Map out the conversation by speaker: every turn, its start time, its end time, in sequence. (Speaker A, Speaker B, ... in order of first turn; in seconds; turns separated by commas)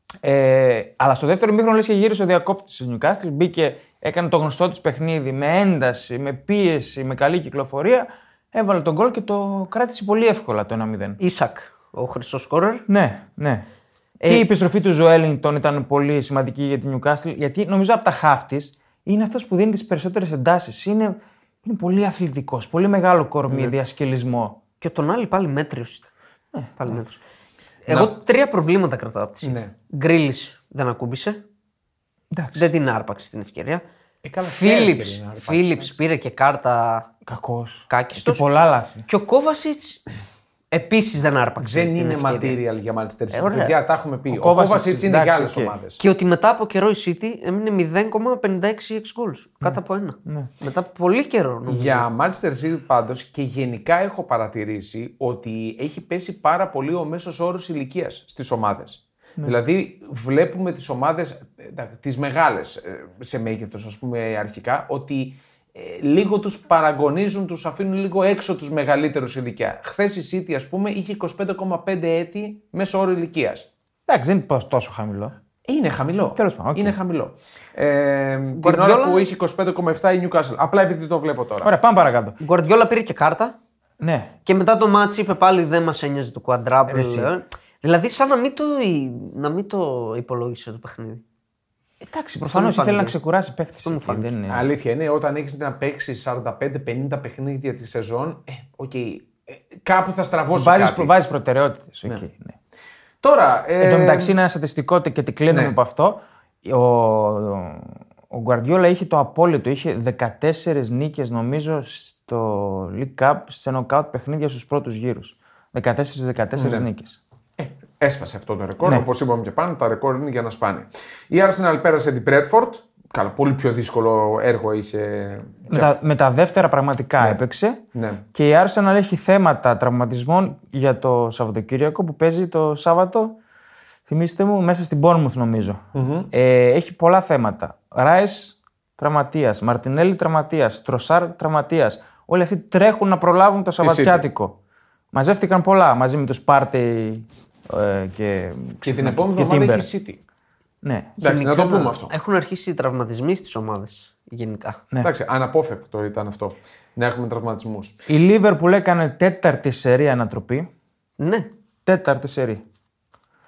Speaker A: 0.2-11.2, Speaker B: 11.2-12.8, Speaker A: 12.9-13.7, Speaker B: 14.2-14.5, Speaker A: 14.2-24.6, Speaker B: 24.8-26.1, Speaker A: 26.5-27.0, Speaker B: 26.8-27.2, Speaker B: 27.9-31.4, Speaker C: 29.4-29.7, Speaker A: 32.3-32.7, Speaker B: 32.5-33.8, Speaker C: 34.2-35.9, Speaker B: 34.4-37.1, Speaker A: 37.2-39.1, Speaker B: 37.9-38.4, Speaker B: 39.1-40.0, Speaker B: 40.7-42.6, Speaker C: 41.6-46.0, Speaker B: 43.3-43.7, Speaker A: 44.3-45.7, Speaker B: 46.0-52.0, Speaker C: 51.7-73.7, Speaker A: 74.1-75.3, Speaker C: 75.7-81.7, Speaker A: 76.4-77.0, Speaker B: 78.6-79.3, Speaker A: 81.6-82.4, Speaker B: 82.4-83.5, Speaker A: 84.0-84.3, Speaker B: 84.5-91.2, Speaker A: 86.9-87.3, Speaker A: 92.0-94.7, Speaker B: 92.5-93.2, Speaker B: 93.8-94.3, Speaker C: 94.5-101.1, Speaker A: 100.5-102.5, Speaker C: 103.2-104.3, Speaker A: 103.8-117.2, Speaker C: 105.5-105.8, Speaker C: 116.6-116.9, Speaker C: 117.6-125.9, Speaker A: 125.7-127.8, Speaker C: 128.0-128.2, Speaker A: 128.3-133.4, Speaker A: 134.1-144.6, Speaker C: 135.9-136.3, Speaker C: 143.8-144.2, Speaker A: 145.1-149.9, Speaker C: 148.8-150.2, Speaker A: 150.8-151.2, Speaker C: 151.2-152.1, Speaker B: 151.2-154.8, Speaker C: 155.0-158.0, Speaker A: 158.1-160.7, Speaker B: 161.2-161.5, Speaker A: 161.9-162.6